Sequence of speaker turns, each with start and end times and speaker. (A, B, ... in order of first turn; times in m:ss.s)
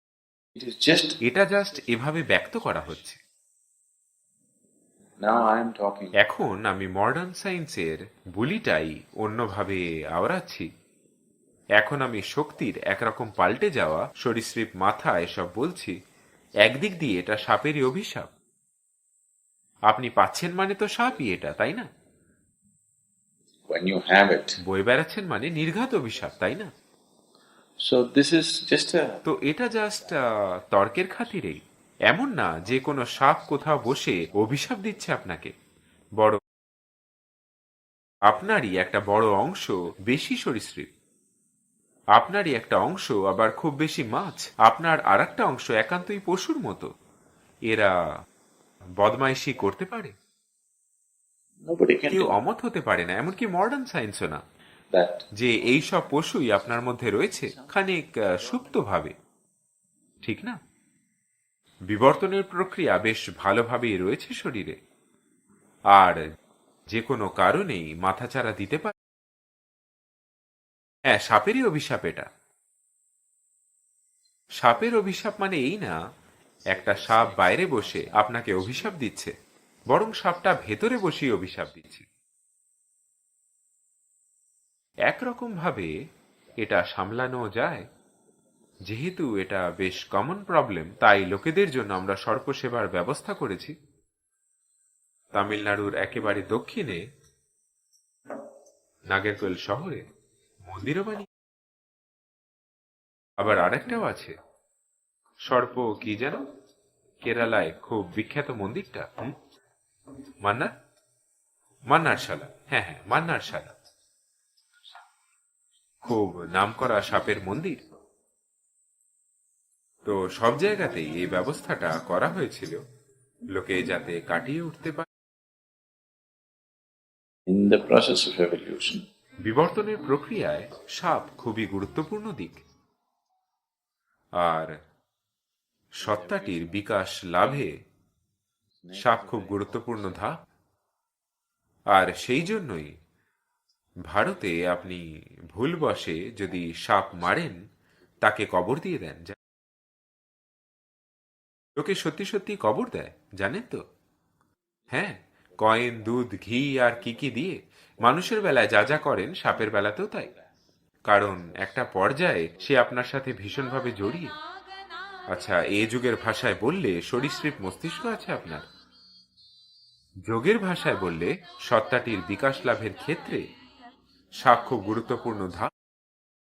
0:00.6-0:01.2 A
0:01.2-0:03.2 B
0:05.2-0:06.1 A
0:06.2-0:10.7 B
0:11.8-0:15.9 B
0:16.6-0:18.3 B
0:19.9-0:21.8 B
0:23.7-0:24.6 A
0:24.6-0:26.7 B
0:27.8-0:29.2 A
0:29.2-0:30.1 B
0:30.7-0:31.6 B
0:32.1-0:35.5 B
0:38.3-0:40.9 B
0:42.2-0:46.9 B
0:49.0-0:50.1 B
0:51.6-0:52.4 A
0:52.1-0:54.4 B
0:54.9-0:55.2 A
0:55.4-0:59.1 B
1:00.2-1:00.6 B
1:01.9-1:04.7 B
1:06.9-1:08.9 B
1:11.1-1:12.3 B
1:14.6-1:15.9 B
1:16.7-1:19.3 B
1:19.9-1:22.0 B
1:25.1-1:25.9 B
1:26.6-1:27.8 B
1:28.9-1:33.7 B
1:35.3-1:37.0 B
1:39.1-1:40.0 B
1:40.7-1:41.2 B
1:43.4-1:44.3 B
1:45.5-1:46.4 B
1:47.2-1:49.3 B
1:51.9-1:53.7 B
1:56.0-1:57.8 B
2:00.0-2:02.8 B
2:03.5-2:05.0 B
2:07.5-2:09.0 A
2:09.4-2:12.6 B
2:14.4-2:14.7 B
2:16.0-2:17.7 B
2:18.8-2:19.6 A
2:19.0-2:20.3 B
2:21.9-2:22.9 B
2:24.1-2:25.0 B
2:25.5-2:27.6 B
2:28.2-2:29.3 B
2:31.8-2:33.8 B
2:34.9-2:40.3 B
2:41.1-2:44.3 B
2:45.3-2:48.6 B
2:50.2-2:53.4 B
2:54.4-2:55.7 B